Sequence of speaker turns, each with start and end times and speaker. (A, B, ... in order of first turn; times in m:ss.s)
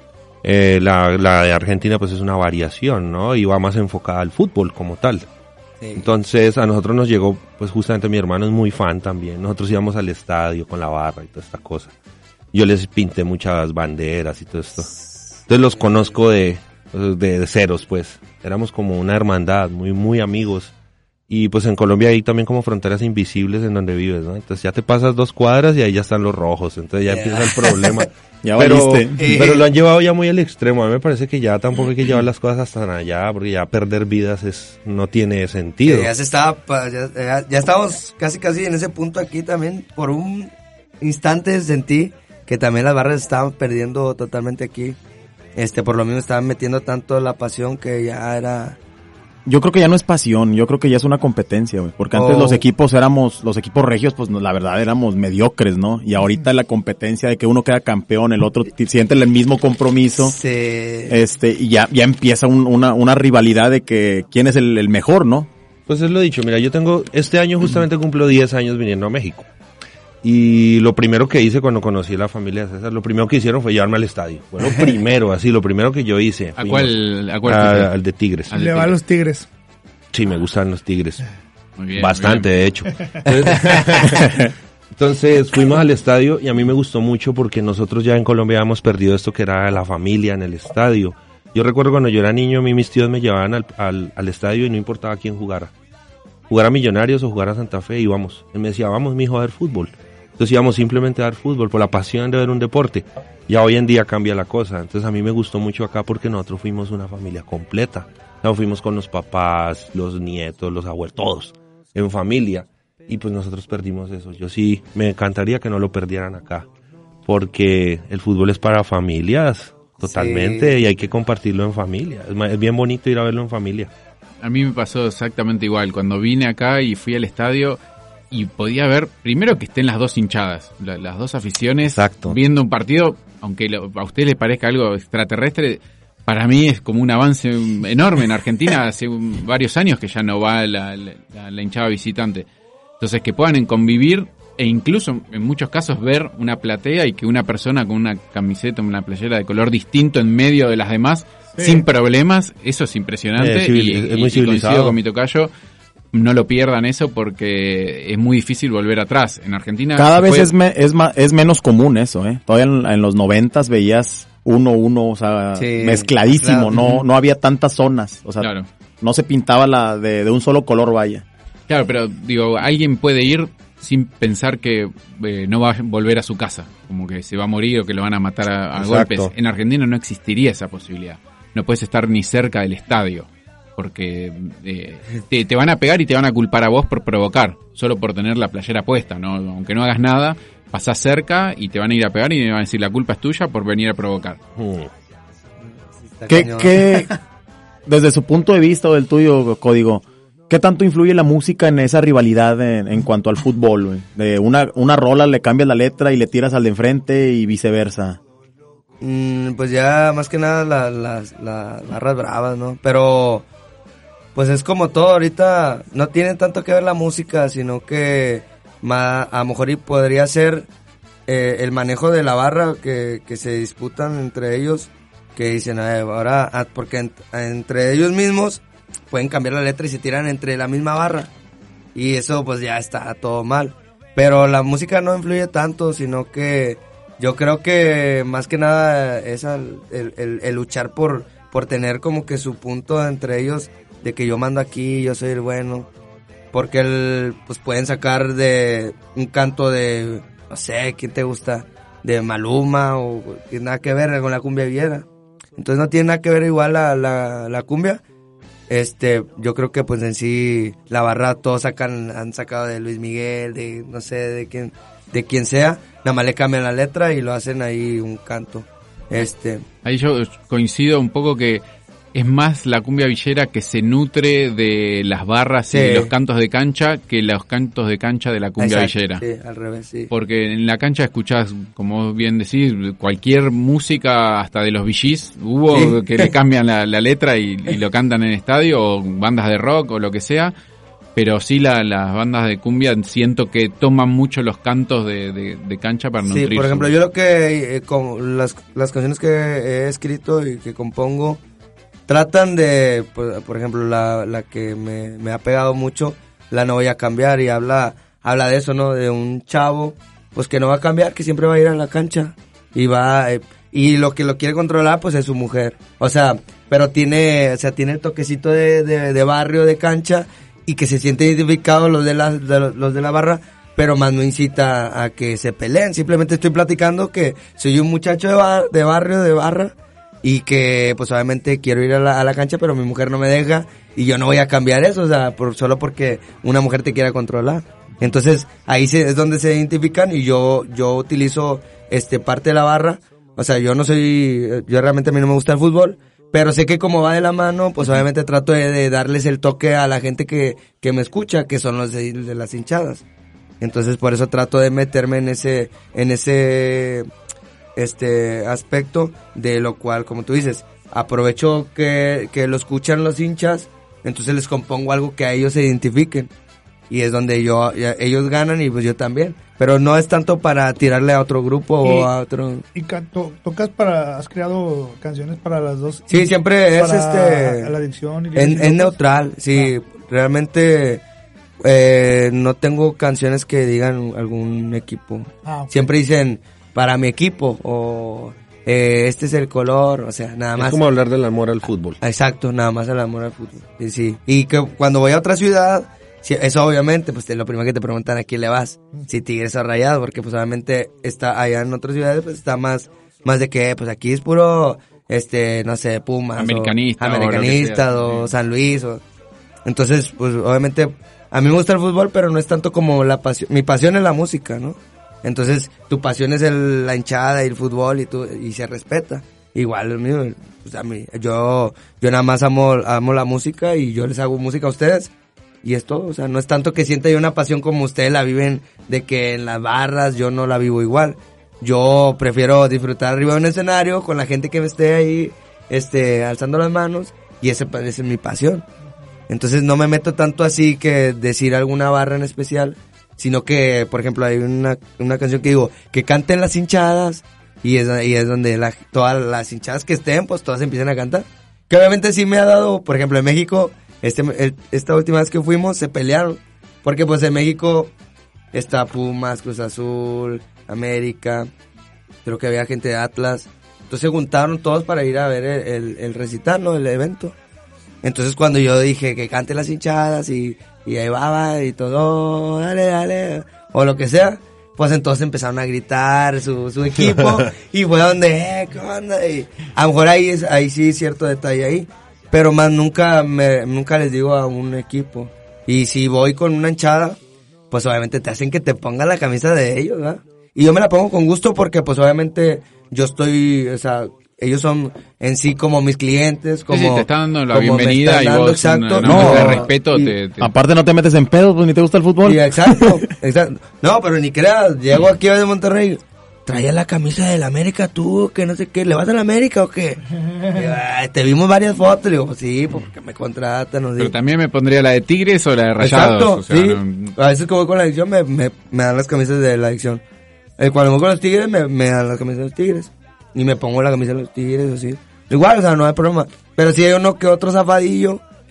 0:00.4-0:05.3 A
0:05.8-0:06.0 B
0:06.0-0:11.9 A
0:12.5-0:14.9 A
0:15.5-0:20.7 A
0:15.7-0:16.2 B
0:21.3-0:36.1 A
0:27.1-0:28.0 B
0:28.4-0:29.2 C
0:29.2-0:29.7 B
0:35.8-0:45.0 B
0:45.5-0:48.8 B
0:49.4-1:00.4 C
0:52.1-0:52.6 B
1:00.2-1:01.1 B
1:01.1-1:05.5 C
1:05.9-1:09.5 A
1:10.2-1:18.5 A
1:16.6-1:17.9 D
1:18.5-1:19.0 D
1:18.5-1:19.5 E
1:20.1-1:21.2 A
1:21.8-1:22.5 D
1:22.0-1:35.7 A
1:36.5-1:56.7 A
1:57.2-2:03.9 A
2:00.0-2:00.7 B
2:04.4-2:07.8 D
2:08.3-2:22.4 D
2:12.0-2:12.4 A
2:23.0-2:35.5 D
2:33.4-2:35.0 A
2:36.1-2:40.5 D
2:40.0-2:48.5 C
2:45.5-2:46.7 B
2:48.4-2:48.7 D
2:49.0-2:51.2 C
2:51.7-3:14.4 D
2:58.8-2:59.3 A
3:14.6-3:14.9 A
3:15.8-3:17.2 B
3:16.3-3:17.1 C
3:17.8-3:28.2 C
3:29.0-3:33.4 B
3:34.3-3:40.7 B
3:41.3-3:51.3 B
3:51.9-4:05.9 B
4:06.5-4:15.0 B
4:15.6-4:18.0 B
4:18.7-4:29.6 B
4:29.8-4:31.6 D
4:32.1-4:39.2 D
4:35.7-4:36.1 B
4:38.6-4:40.1 B
4:40.1-4:50.5 D
4:45.7-4:46.3 B
4:51.1-4:56.9 D
4:56.3-5:01.4 B
5:02.1-5:53.0 B
5:53.6-5:57.1 B
5:57.8-6:06.3 B
6:06.9-6:12.6 B
6:11.8-6:12.1 E
6:12.7-6:19.0 E
6:16.1-6:17.7 B
6:18.3-6:21.0 B
6:21.6-6:30.8 B
6:25.4-6:25.9 E
6:30.6-6:32.0 A
6:32.0-6:49.0 B
6:46.4-6:48.3 D
6:49.6-7:05.1 B
7:05.6-7:18.6 B
7:19.3-7:37.9 B
7:38.5-7:41.5 B
7:42.2-7:47.4 B
7:48.0-8:07.2 B
8:07.7-8:20.1 B
8:16.7-8:20.5 D
8:19.0-8:19.7 C
8:20.4-8:22.9 C
8:22.2-8:34.1 B
8:34.0-8:37.1 D
8:35.8-8:40.0 B
8:40.6-8:48.2 B